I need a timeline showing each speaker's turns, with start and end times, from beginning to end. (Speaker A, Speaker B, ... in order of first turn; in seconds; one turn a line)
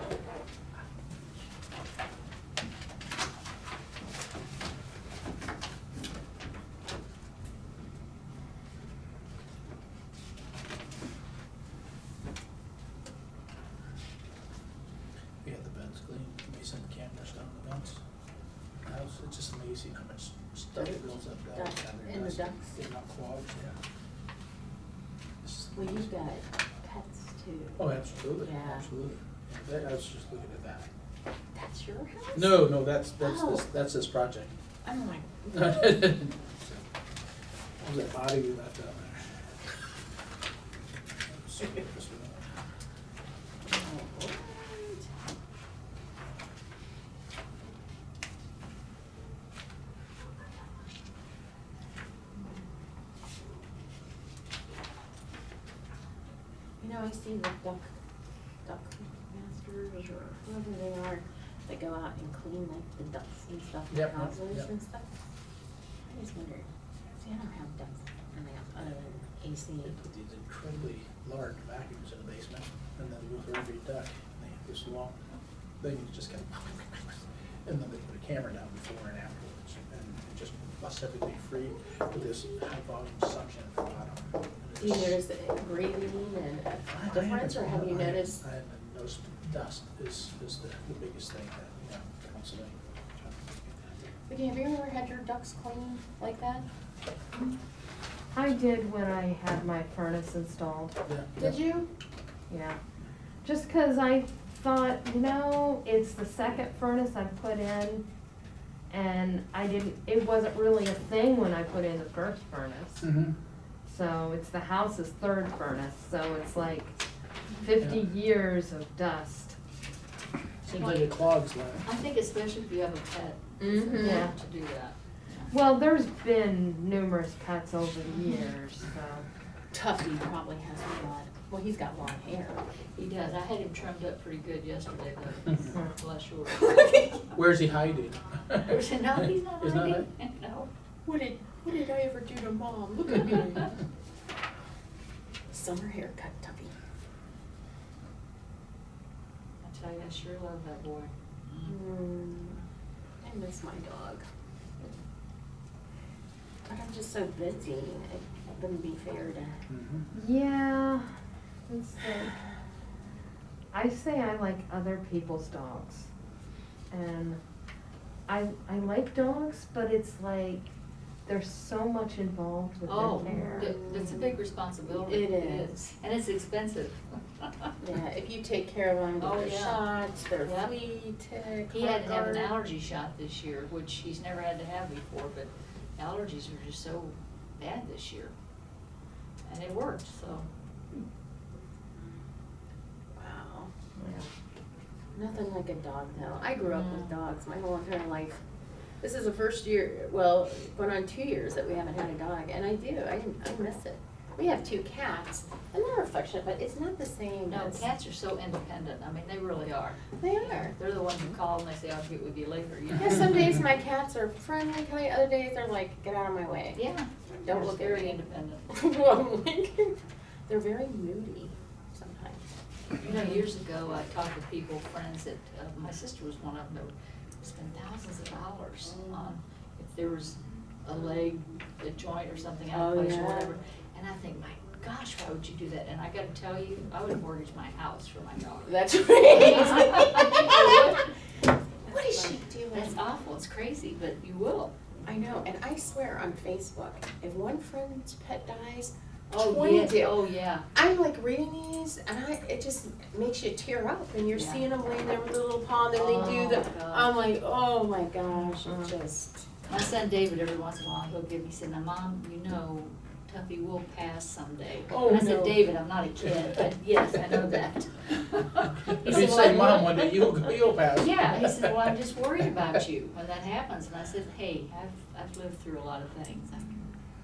Speaker A: 15.4-18.0
Speaker A: 18.9-23.8
Speaker B: 20.8-21.0
Speaker B: 21.5-22.7
Speaker A: 25.4-26.1
Speaker B: 25.8-27.9
Speaker A: 27.8-30.9
Speaker B: 28.4-28.9
Speaker B: 31.5-33.7
Speaker A: 32.3-34.5
Speaker B: 34.8-35.8
Speaker A: 35.5-36.4
Speaker A: 37.8-39.3
Speaker A: 41.5-42.4
Speaker B: 43.6-45.0
Speaker B: 56.8-57.9
Speaker B: 58.6-65.1
Speaker A: 63.9-64.7
Speaker B: 66.1-66.7
Speaker B: 67.2-69.9
Speaker A: 69.8-75.2
Speaker A: 75.8-85.2
Speaker B: 84.8-88.4
Speaker A: 86.9-94.1
Speaker B: 94.3-96.7
Speaker C: 98.3-101.0
Speaker A: 101.1-101.6
Speaker B: 101.4-101.9
Speaker C: 102.5-102.8
Speaker C: 103.4-108.0
Speaker C: 108.9-113.1
Speaker A: 113.0-113.3
Speaker C: 113.9-117.0
Speaker C: 117.6-119.5
Speaker A: 117.8-118.0
Speaker A: 120.7-121.9
Speaker D: 121.8-125.5
Speaker B: 123.6-124.2
Speaker C: 124.0-124.3
Speaker C: 125.5-129.2
Speaker B: 129.7-132.6
Speaker D: 132.9-137.3
Speaker B: 136.6-137.1
Speaker A: 137.3-140.1
Speaker D: 138.6-140.7
Speaker B: 141.0-143.7
Speaker B: 145.5-146.7
Speaker D: 149.6-151.8
Speaker B: 151.6-152.6
Speaker B: 153.2-154.2
Speaker B: 156.6-159.6
Speaker A: 159.7-160.1
Speaker C: 160.1-161.1
Speaker C: 161.7-162.4
Speaker C: 163.7-166.1
Speaker C: 166.9-167.4
Speaker C: 168.3-170.7
Speaker C: 171.2-173.8
Speaker D: 172.9-177.7
Speaker B: 173.3-175.8
Speaker B: 177.8-182.5
Speaker D: 179.2-179.9
Speaker D: 180.4-180.7
Speaker D: 181.7-188.3
Speaker D: 189.4-190.5
Speaker B: 193.2-193.7
Speaker C: 194.0-194.3
Speaker B: 195.1-198.4
Speaker D: 196.6-197.1
Speaker B: 199.0-207.8
Speaker D: 207.5-213.6
Speaker B: 210.2-210.7
Speaker B: 213.0-216.8
Speaker D: 216.7-218.7
Speaker B: 217.4-219.9
Speaker B: 220.5-222.4
Speaker D: 223.0-241.1
Speaker B: 232.7-233.6
Speaker B: 238.7-241.0
Speaker B: 241.9-243.0
Speaker D: 242.2-244.8
Speaker B: 245.0-250.2
Speaker D: 249.3-250.7
Speaker B: 250.7-259.5
Speaker D: 254.3-254.7
Speaker D: 255.9-257.2
Speaker D: 259.7-270.4
Speaker A: 264.9-265.7
Speaker A: 268.9-271.9
Speaker D: 270.9-276.9